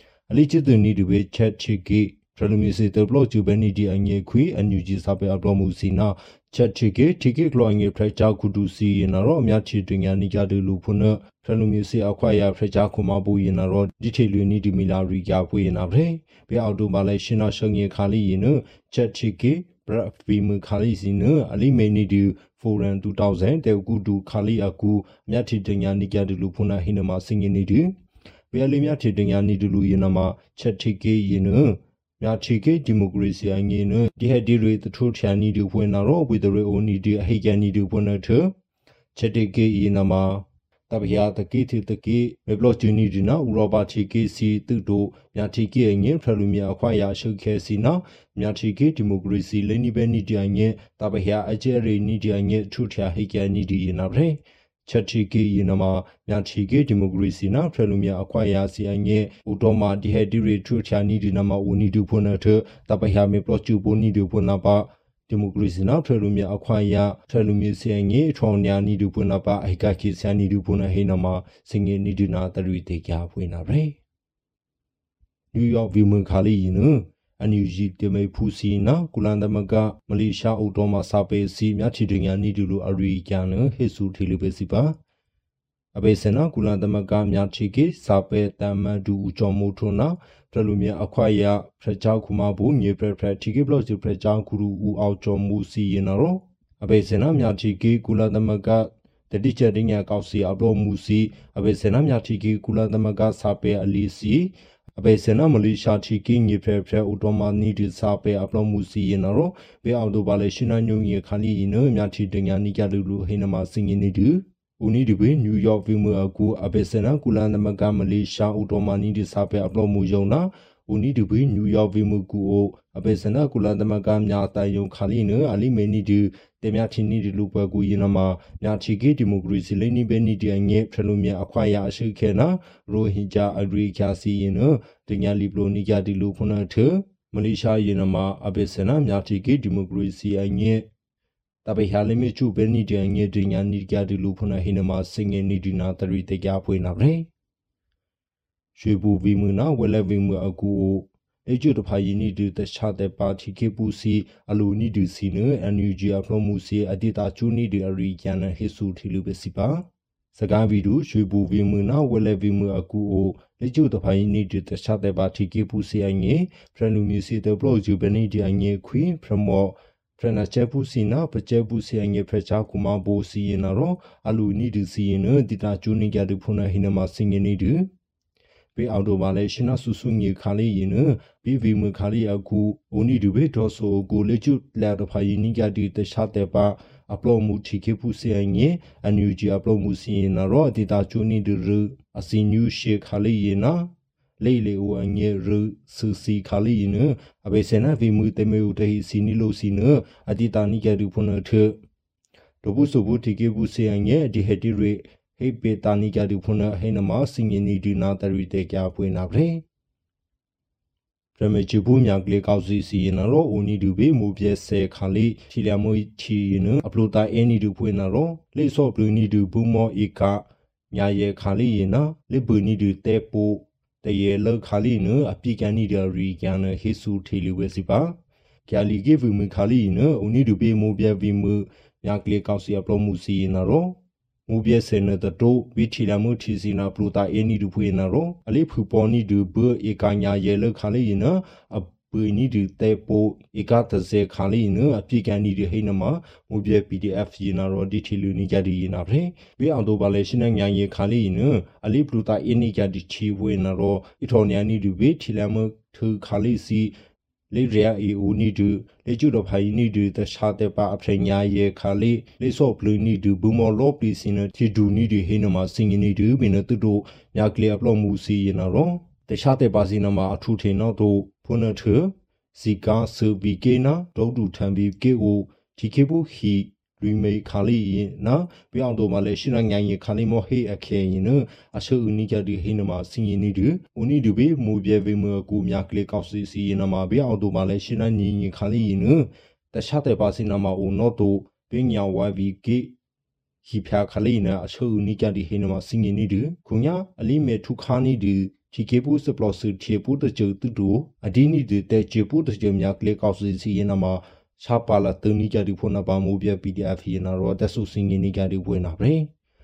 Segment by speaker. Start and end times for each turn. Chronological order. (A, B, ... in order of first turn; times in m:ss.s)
0:00.3-0:27.9 A
0:28.5-0:38.5 A
0:39.2-1:14.0 A
1:15.5-1:25.0 A
1:25.9-2:20.9 A
2:21.6-2:27.3 A
2:28.8-2:57.9 A
2:58.8-3:21.8 A
3:22.6-3:29.6 A
3:31.4-3:54.0 A
3:54.5-4:17.0 A
4:17.5-4:53.0 A
4:53.6-5:09.3 A